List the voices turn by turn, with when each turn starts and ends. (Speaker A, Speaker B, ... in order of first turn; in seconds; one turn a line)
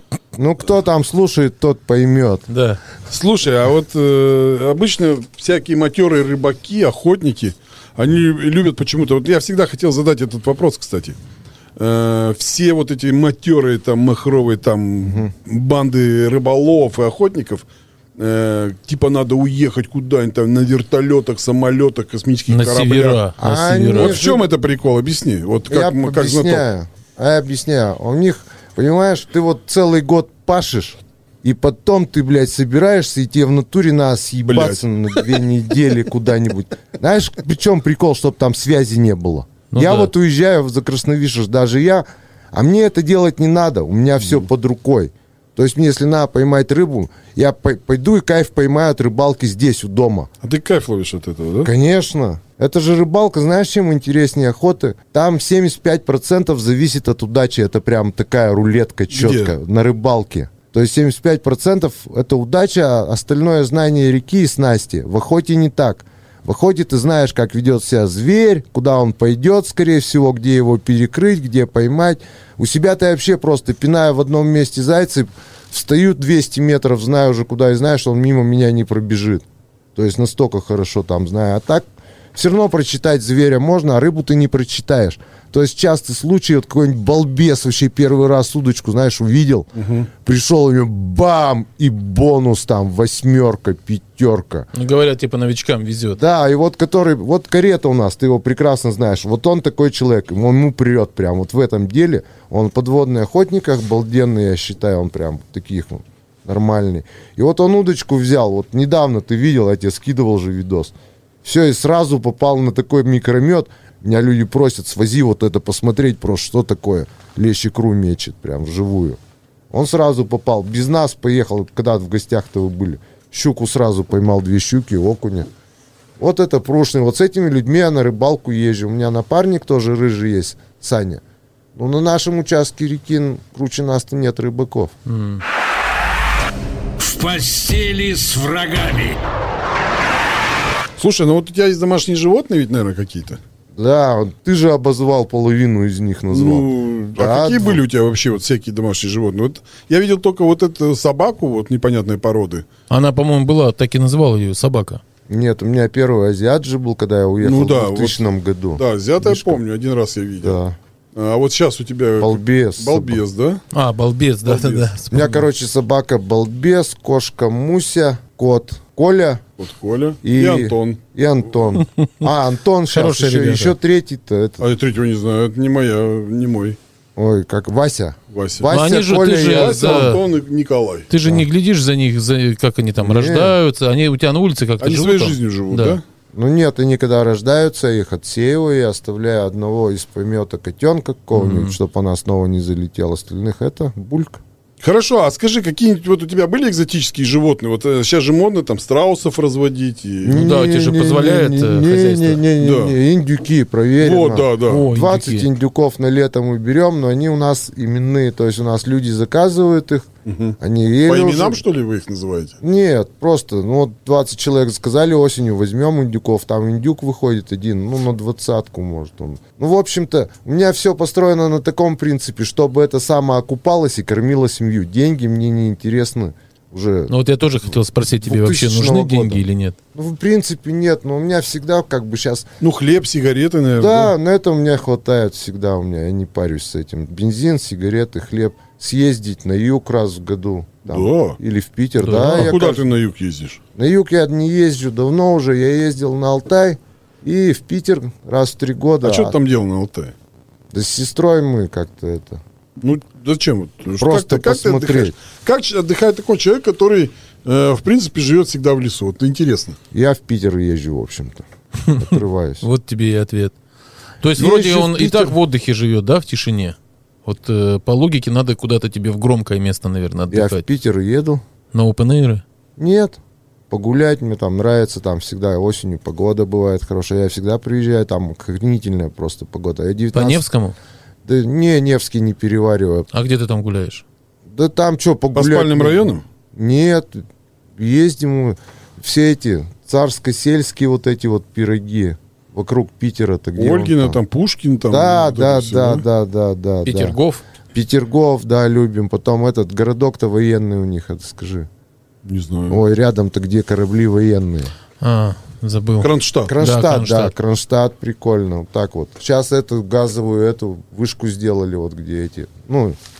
Speaker A: 0.3-2.5
Speaker B: 2.5-2.8
Speaker C: 3.1-11.2
Speaker C: 11.8-23.2
Speaker A: 15.0-15.3
Speaker B: 22.5-24.2
Speaker A: 23.4-24.4
Speaker C: 23.9-26.6
Speaker A: 25.7-50.3
Speaker C: 34.5-34.8
Speaker B: 39.7-40.1
Speaker C: 50.4-51.7
Speaker A: 51.6-79.4
Speaker C: 59.1-59.5
Speaker A: 79.9-94.7
Speaker C: 89.8-90.1
Speaker B: 94.7-96.2
Speaker A: 96.1-119.2
Speaker A: 119.7-125.5
Speaker A: 126.2-131.2
Speaker A: 131.8-134.9
Speaker B: 135.1-135.4
Speaker D: 137.0-139.2
Speaker C: 141.0-143.4
Speaker A: 143.8-147.8
Speaker C: 146.3-152.7
Speaker B: 152.9-155.0
Speaker A: 155.3-159.6
Speaker C: 157.4-158.2
Speaker C: 158.8-160.6
Speaker A: 160.4-160.8
Speaker C: 161.1-163.6
Speaker A: 162.2-163.2
Speaker B: 163.7-165.4
Speaker C: 164.4-164.9
Speaker A: 165.1-169.4
Speaker C: 169.6-171.0
Speaker A: 170.2-174.6
Speaker B: 172.9-173.8
Speaker C: 174.6-176.8
Speaker A: 177.2-180.2
Speaker C: 178.3-178.7
Speaker B: 178.7-180.2
Speaker C: 179.4-181.1
Speaker B: 181.1-186.0
Speaker A: 183.0-183.6
Speaker C: 184.8-186.0
Speaker A: 186.3-194.4
Speaker B: 191.3-191.8
Speaker C: 194.8-200.5
Speaker A: 200.2-210.1
Speaker B: 200.3-202.4
Speaker C: 202.6-203.0
Speaker C: 204.0-204.9
Speaker B: 204.6-205.5
Speaker C: 210.2-212.6
Speaker A: 210.6-211.6
Speaker A: 212.6-227.1
Speaker B: 227.1-229.8
Speaker A: 228.2-229.4
Speaker A: 229.9-232.5
Speaker C: 232.6-234.1
Speaker A: 233.8-242.9
Speaker C: 240.9-241.4
Speaker B: 242.0-242.6
Speaker C: 242.0-243.6
Speaker A: 243.7-249.4
Speaker C: 249.0-250.1
Speaker A: 250.7-252.4
Speaker C: 252.8-259.8
Speaker A: 254.0-255.2
Speaker A: 259.9-262.6
Speaker B: 261.9-263.5
Speaker B: 264.2-270.6
Speaker A: 264.4-265.4
Speaker A: 270.3-271.4
Speaker B: 271.7-272.4
Speaker A: 272.8-273.2
Speaker A: 273.7-280.4
Speaker B: 280.1-280.8
Speaker A: 281.2-283.1
Speaker B: 283.1-284.0
Speaker A: 284.5-287.2
Speaker C: 285.3-286.2
Speaker A: 287.8-294.2
Speaker C: 293.6-296.0
Speaker A: 294.9-297.2
Speaker B: 296.8-297.4
Speaker A: 297.7-301.7
Speaker C: 302.2-302.8
Speaker A: 302.7-304.7
Speaker B: 305.0-307.3
Speaker C: 306.0-306.6
Speaker A: 306.4-313.0